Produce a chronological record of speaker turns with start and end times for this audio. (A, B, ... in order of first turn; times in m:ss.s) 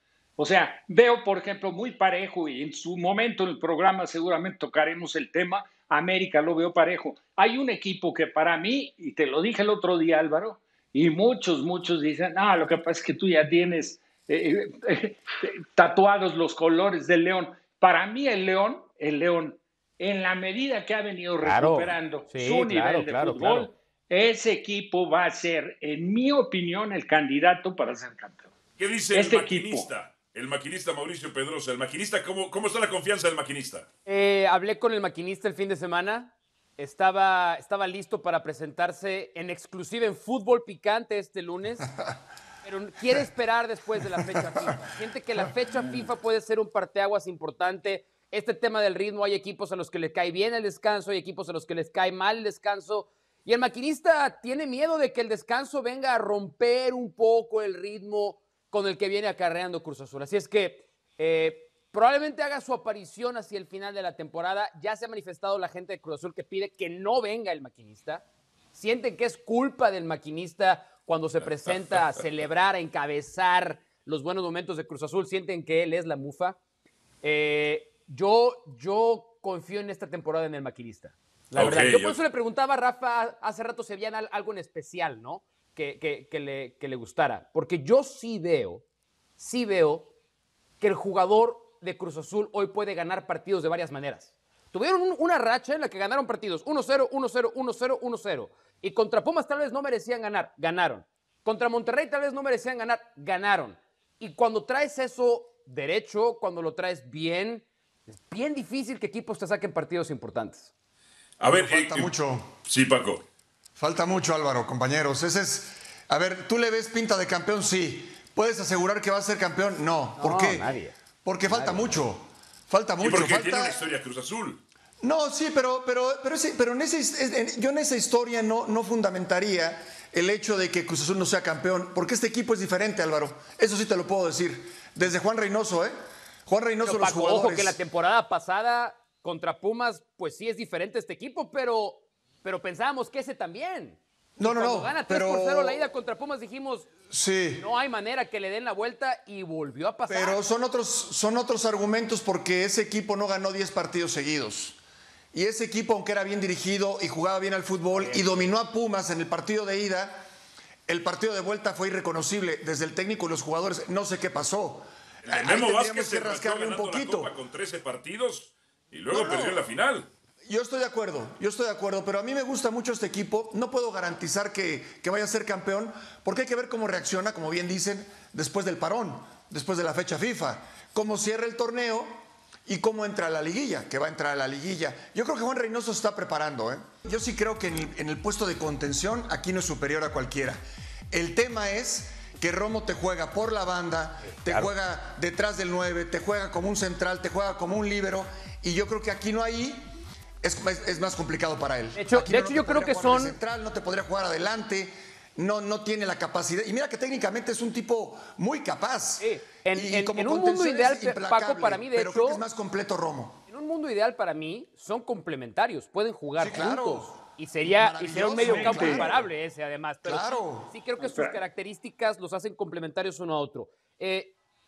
0:00.4-0:28.5 A
0:21.4-0:23.7 B
0:28.8-0:33.8 C
0:29.1-0:29.9 A
0:34.0-0:41.9 B
0:42.6-1:16.6 B
0:44.2-0:44.7 D
1:11.6-1:12.2 C
1:17.2-1:28.8 B
1:21.5-1:22.2 C
1:29.4-1:30.1 B
1:30.8-1:50.7 B
1:51.4-1:52.1 C
1:51.5-1:52.5 D
1:52.6-1:53.2 C
1:53.8-2:00.7 D
2:00.2-2:02.0 B
2:01.2-2:03.8 D
2:03.0-2:04.6 C
2:05.0-2:15.9 D
2:16.4-2:17.8 D
2:16.8-2:26.9 B
2:24.4-2:25.8 D
2:27.1-2:27.6 D
2:27.6-2:30.4 B
2:30.1-2:34.8 D
2:35.3-2:40.2 D
2:37.9-2:38.5 B
2:40.9-2:47.3 D
2:45.2-2:50.1 C
2:49.1-2:49.6 D
2:50.5-3:02.1 D
3:02.6-3:10.6 D
3:11.1-3:19.8 D
3:14.2-3:14.7 B
3:20.4-3:33.4 D
3:21.9-3:23.4 B
3:29.2-3:32.4 B
3:33.5-3:44.3 B
3:36.4-3:37.1 D
3:37.6-3:39.2 D
3:38.4-3:39.0 A
3:40.0-3:40.7 D
3:41.0-3:41.4 A